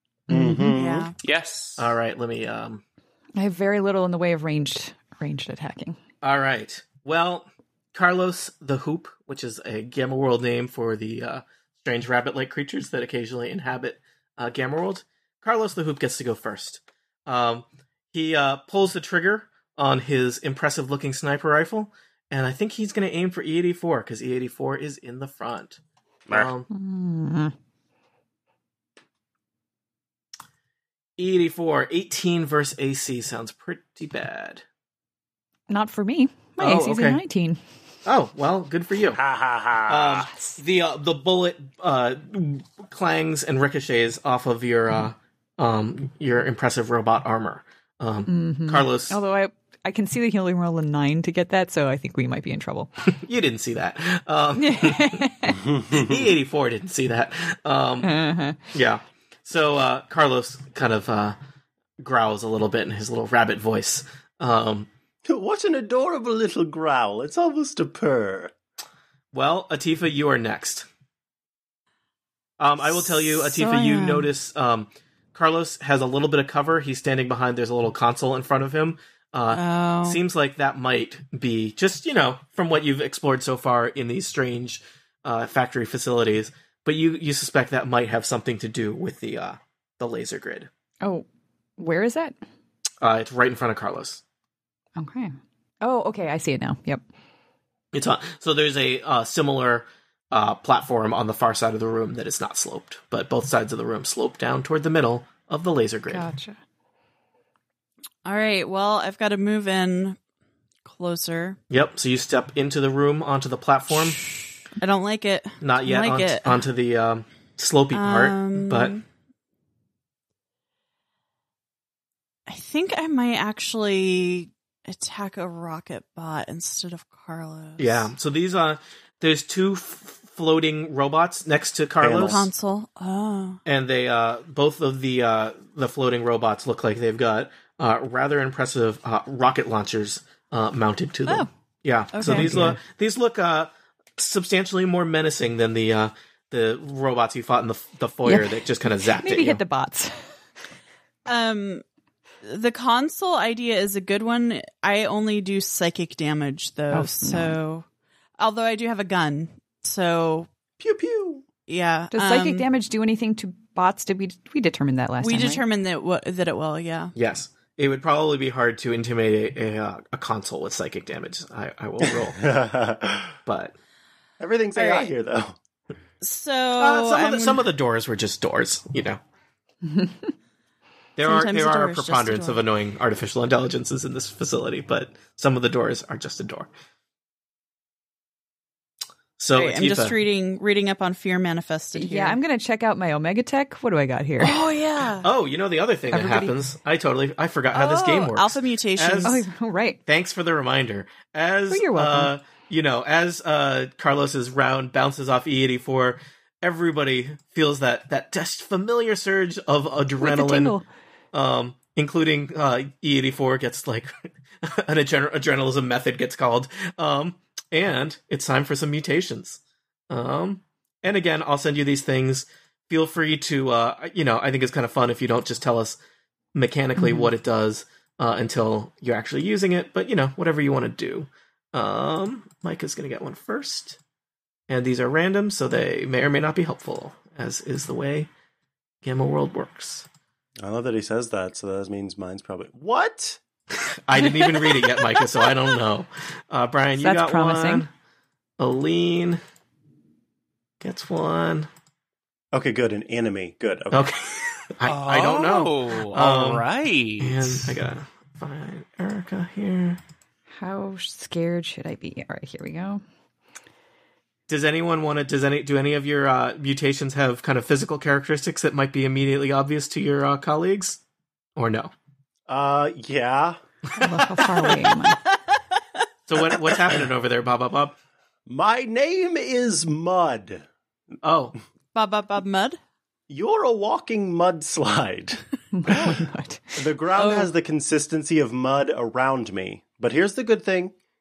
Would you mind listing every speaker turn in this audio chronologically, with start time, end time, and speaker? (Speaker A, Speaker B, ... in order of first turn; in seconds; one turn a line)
Speaker A: 0.3-0.8
Speaker B: 0.3-1.1
Speaker C: 0.7-1.1
Speaker D: 1.2-1.9
Speaker E: 1.8-2.8
Speaker A: 3.4-6.0
Speaker E: 6.2-26.7
Speaker A: 26.7-27.5
Speaker E: 31.2-34.6
Speaker A: 35.7-37.6
Speaker E: 36.6-37.2
Speaker E: 38.1-39.2
Speaker B: 39.2-40.3
Speaker E: 39.9-49.2
Speaker A: 48.3-52.9
Speaker E: 53.1-55.2
Speaker A: 54.6-55.6
Speaker B: 55.6-56.3
Speaker E: 55.9-58.2
Speaker A: 58.0-58.6
Speaker E: 58.7-61.4
Speaker E: 62.0-64.9
Speaker B: 65.3-68.5
Speaker E: 69.3-70.9
Speaker E: 72.6-90.7
Speaker C: 72.9-74.3
Speaker C: 79.5-80.2
Speaker A: 91.8-92.4
Speaker E: 93.0-94.2
Speaker A: 95.0-97.0
Speaker E: 97.9-106.3
Speaker A: 106.1-106.6
Speaker C: 108.2-110.2
Speaker C: 110.8-111.6
Speaker E: 111.7-114.3
Speaker C: 114.8-116.6
Speaker E: 115.6-119.0
Speaker C: 117.9-119.0
Speaker C: 122.5-128.1
Speaker E: 127.8-132.4
Speaker B: 132.0-132.5
Speaker C: 132.1-133.6
Speaker E: 133.7-149.6
Speaker C: 142.1-142.7
Speaker A: 142.2-142.8
Speaker A: 148.2-150.3
Speaker C: 151.3-151.8
Speaker C: 152.4-157.8
Speaker A: 156.9-157.6
Speaker C: 158.4-160.5
Speaker B: 160.8-161.4
Speaker C: 161.7-162.7
Speaker A: 162.1-165.6
Speaker C: 165.2-167.1
Speaker E: 167.2-172.5
Speaker B: 172.0-173.4
Speaker E: 173.5-173.8
Speaker B: 174.4-175.6
Speaker C: 174.8-175.1
Speaker C: 176.2-177.7
Speaker E: 176.8-179.2
Speaker A: 179.9-180.1
Speaker E: 181.2-186.7
Speaker C: 181.2-182.6
Speaker E: 189.4-190.2
Speaker C: 189.5-192.4
Speaker A: 191.9-194.6
Speaker C: 194.4-195.3
Speaker E: 195.2-199.4
Speaker A: 196.1-196.5
Speaker C: 197.7-199.4
Speaker A: 199.2-200.0
Speaker E: 200.1-210.8
Speaker A: 201.7-202.3
Speaker A: 210.2-210.9
Speaker E: 211.3-226.0
Speaker E: 226.6-234.0
Speaker A: 227.0-227.3
Speaker E: 234.7-238.3
Speaker E: 239.0-240.1
Speaker B: 240.6-243.4
Speaker E: 244.1-247.9
Speaker A: 247.0-247.9
Speaker E: 248.6-249.4
Speaker E: 250.8-251.7
Speaker B: 252.5-254.1
Speaker E: 253.9-256.6
Speaker D: 254.8-257.8
Speaker E: 257.2-260.0
Speaker A: 260.6-263.0
Speaker E: 264.5-271.0
Speaker E: 271.6-271.9
Speaker B: 272.5-273.6
Speaker A: 274.0-275.2
Speaker E: 276.3-278.0
Speaker B: 278.5-280.7
Speaker E: 281.2-281.6
Speaker C: 281.9-282.8
Speaker B: 283.3-290.9
Speaker A: 285.7-286.8
Speaker C: 287.2-287.5